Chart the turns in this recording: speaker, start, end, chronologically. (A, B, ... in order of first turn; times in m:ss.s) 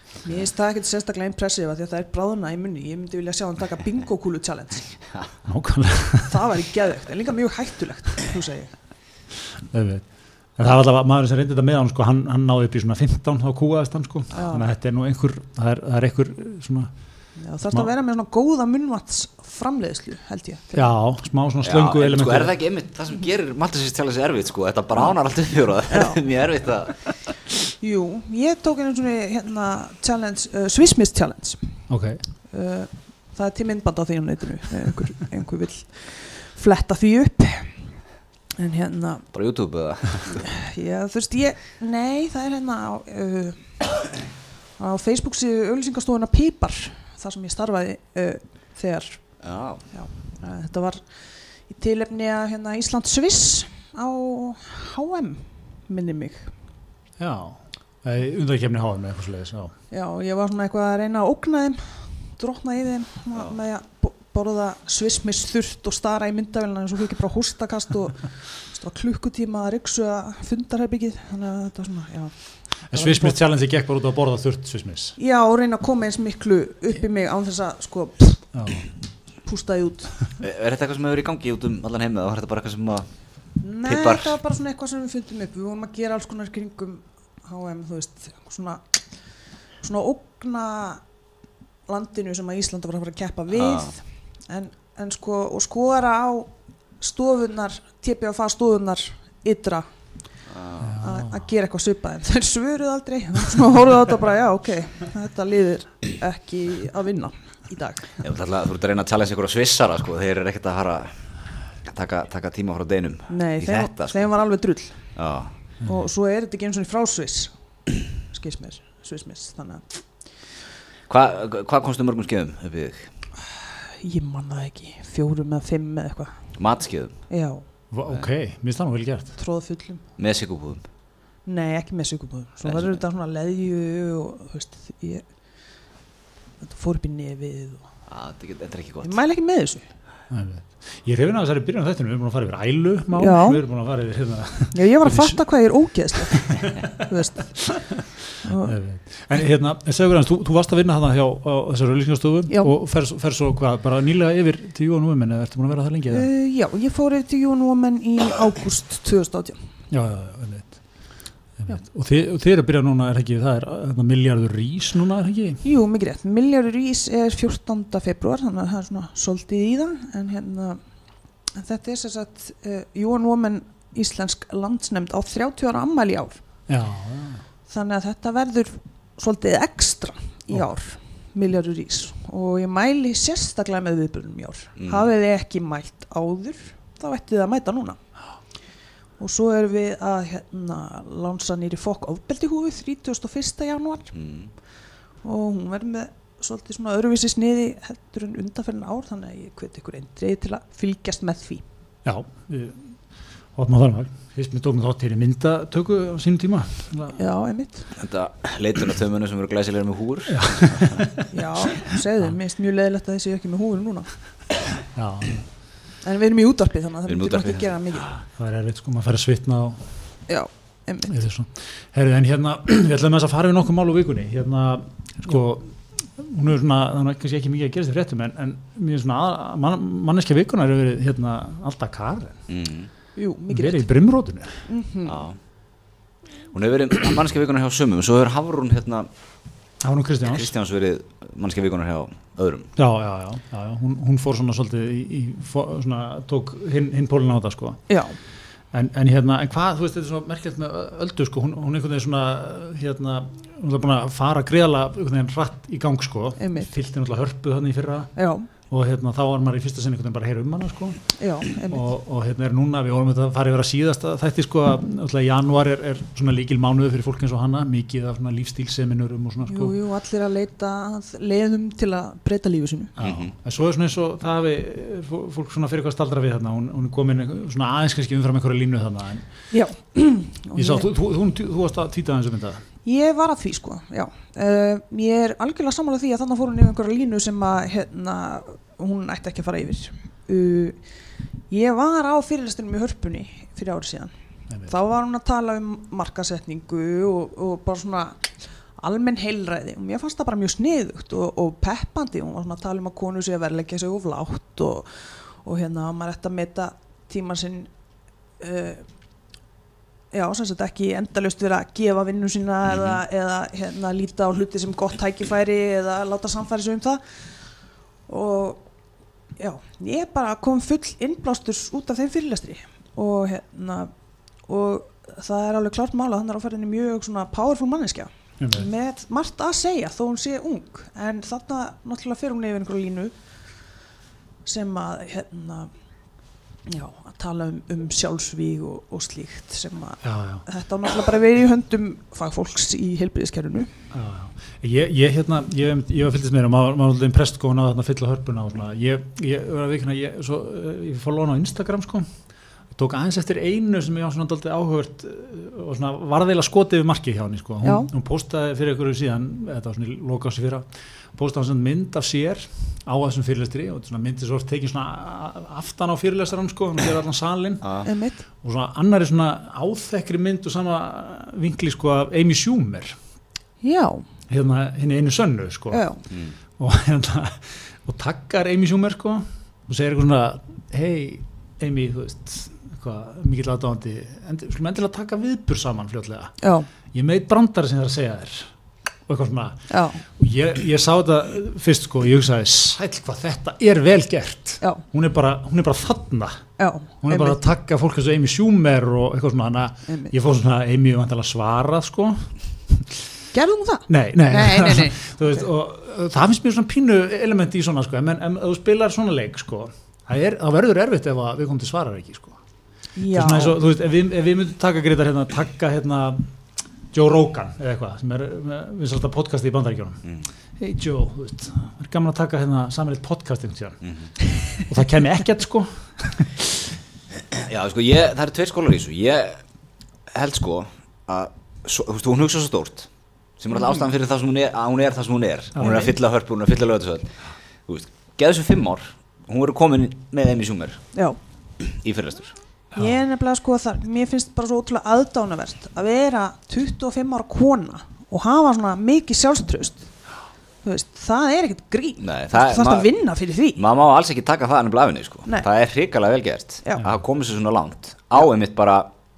0:00.2-0:04.9 A
0:05.4-0:06.4 B
0:06.3-0:08.7 A
0:09.7-0:16.9 B
0:14.3-0:14.7 A
0:17.4-0:20.9 A
0:20.7-0:22.6 B
0:21.6-0:27.1 C
0:25.9-0:26.2 A
0:27.8-0:31.6 A
0:31.9-0:32.2 B
0:32.5-0:37.7 A
0:38.6-0:39.3 A
0:39.3-0:40.4 C
0:40.2-0:43.8 A
0:44.8-0:49.2 A
0:49.4-0:49.8 C
0:49.9-0:51.0 A
0:51.7-0:56.5 A
0:57.2-0:59.7 B
0:59.9-1:12.3 A
1:12.9-1:15.1 B
1:12.9-1:13.4 A
1:15.2-1:18.5 A
1:18.5-1:18.8 B
1:19.4-1:20.1 A
1:20.4-1:23.1 C
1:23.6-1:28.8 A
1:23.8-1:24.4 C
1:29.8-1:31.0 A
1:31.9-1:39.8 A
1:33.5-1:33.9 C
1:40.5-1:40.9 C
1:40.8-1:41.4 B
1:41.0-1:48.2 A
1:48.2-1:51.1 C
1:51.8-1:54.2 C
1:53.3-1:55.0 A
1:55.2-1:55.5 C
1:55.8-1:57.5 A
1:58.3-1:59.8 A
2:01.1-2:03.1 C
2:04.0-2:06.3 A
2:06.6-2:07.1 C
2:07.3-2:07.6 A
2:07.9-2:09.3 B
2:09.4-2:10.0 A
2:10.2-2:10.8 C
2:11.4-2:15.2 A
2:12.6-2:13.0 C
2:16.6-2:17.8 A
2:18.1-2:19.1 C
2:19.0-2:19.8 A
2:20.3-2:25.4 B
2:23.2-2:23.6 A
2:24.7-2:27.6 A
2:26.3-2:27.0 B
2:27.6-2:27.9 B
2:28.4-2:28.8 A
2:28.6-2:36.3 B
2:36.1-2:39.6 A
2:39.9-2:40.8 B
2:41.6-2:45.6 B
2:45.6-2:50.8 A
2:51.5-2:56.4 A
2:56.7-2:57.4 B
2:57.7-3:08.0 A
3:04.8-3:05.1 C
3:09.2-3:14.1 A
3:14.1-3:14.5 C
3:15.2-3:21.6 A
3:22.0-3:22.9 B
3:23.6-3:27.2 B
3:27.1-3:27.9 A
3:27.9-3:31.0 C
3:30.3-3:31.3 B
3:31.3-3:34.1 A
3:34.9-3:35.4 B
3:36.0-3:38.1 A
3:37.1-3:37.7 C
3:38.4-3:39.8 B
3:40.3-3:41.1 A
3:41.1-3:52.4 B
3:52.5-3:52.9 C
3:53.2-3:53.9 A
3:53.5-3:54.6 B
3:54.7-3:55.2 A
3:55.0-3:55.4 C
3:56.5-3:59.1 C
3:59.8-4:00.5 B
4:00.2-4:02.7 C
4:02.8-4:07.8 B
4:07.9-4:08.2 A
4:08.7-4:18.1 B
4:16.4-4:16.7 A
4:18.2-4:18.5 A
4:18.7-4:21.0 B
4:21.2-4:21.9 A
4:21.7-4:29.7 B
4:29.4-4:32.9 A
4:33.0-4:39.2 B
4:33.0-4:33.3 C
4:39.5-4:40.9 A
4:40.6-4:42.6 B
4:42.8-4:50.8 A
4:51.5-4:54.1 A
4:54.7-4:58.3 A
4:58.8-5:04.9 A
5:05.4-5:07.7 A
5:08.4-5:08.8 A
5:10.1-5:17.0 A
5:12.7-5:13.0 C
5:18.1-5:18.6 A
5:19.4-5:23.9 A
5:24.5-5:33.1 A
5:28.4-5:28.7 B
5:34.4-5:35.7 A
5:36.7-5:43.7 A
5:40.0-5:40.4 B
5:43.9-5:52.1 B
5:52.7-6:07.8 B
5:57.6-5:57.9 A
6:07.8-6:08.2 A
6:08.4-6:13.0 B
6:13.6-6:14.0 A
6:14.3-6:15.8 B
6:15.7-6:16.0 A
6:16.6-6:26.3 B
6:26.4-6:26.7 A
6:26.9-6:28.5 B
6:29.1-6:29.6 B
6:29.7-6:30.0 A
6:30.1-6:36.4 B
6:36.6-6:37.4 A
6:37.0-6:42.9 B
6:39.9-6:40.1 A
6:43.3-6:45.4 A
6:43.9-6:52.4 B
6:53.0-6:53.6 A
6:53.1-6:56.3 B
6:56.9-7:00.0 B
7:00.6-7:03.8 B
7:03.8-7:04.1 C
7:04.6-7:06.3 B
7:07.3-7:09.4 C
7:10.1-7:20.8 C
7:15.6-7:15.8 B
7:15.6-7:15.9 A
7:21.6-7:22.4 C
7:22.8-7:29.9 A
7:30.6-7:33.6 A
7:32.0-7:32.9 C
7:33.6-7:38.9 C